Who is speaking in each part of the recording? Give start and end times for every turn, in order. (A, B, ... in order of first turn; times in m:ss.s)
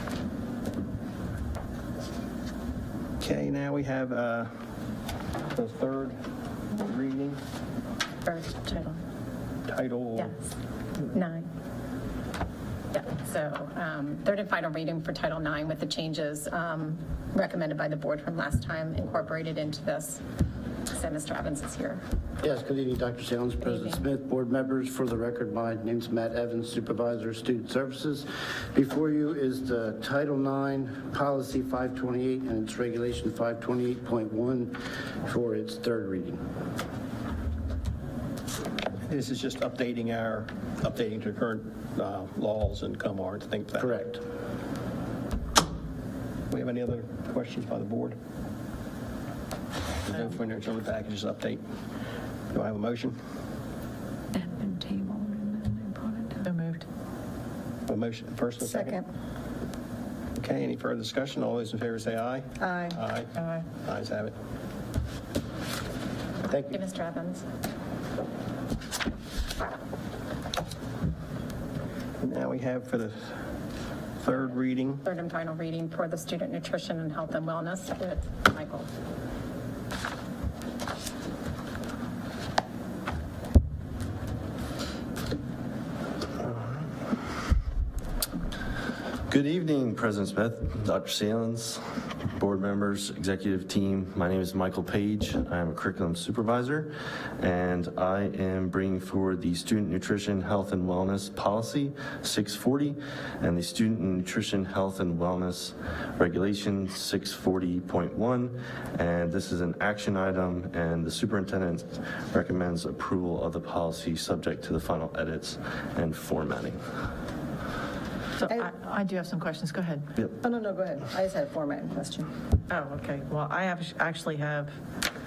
0:03.2-0:04.5 A
0:05.5-0:07.4 A
0:08.2-0:09.0 B
0:09.7-0:10.3 A
0:11.1-0:11.5 B
0:12.9-0:20.2 B
0:20.9-0:22.0 B
0:22.4-0:36.4 C
0:23.6-0:24.0 B
0:39.0-0:44.0 A
0:43.8-0:44.2 C
0:46.5-0:48.2 A
0:50.0-0:51.6 A
0:52.5-0:53.2 A
0:54.3-0:56.4 D
0:56.4-0:56.8 E
0:57.9-0:59.0 A
0:58.6-0:59.0 F
1:00.4-1:04.3 A
1:02.6-1:03.0 F
1:03.4-1:03.6 E
1:06.4-1:06.8 C
1:06.7-1:07.5 B
1:12.2-1:13.5 A
1:14.2-1:15.0 A
1:15.0-1:18.9 B
1:29.3-1:56.8 G
1:58.4-2:00.1 E
2:00.4-2:02.3 F
2:02.7-2:04.8 E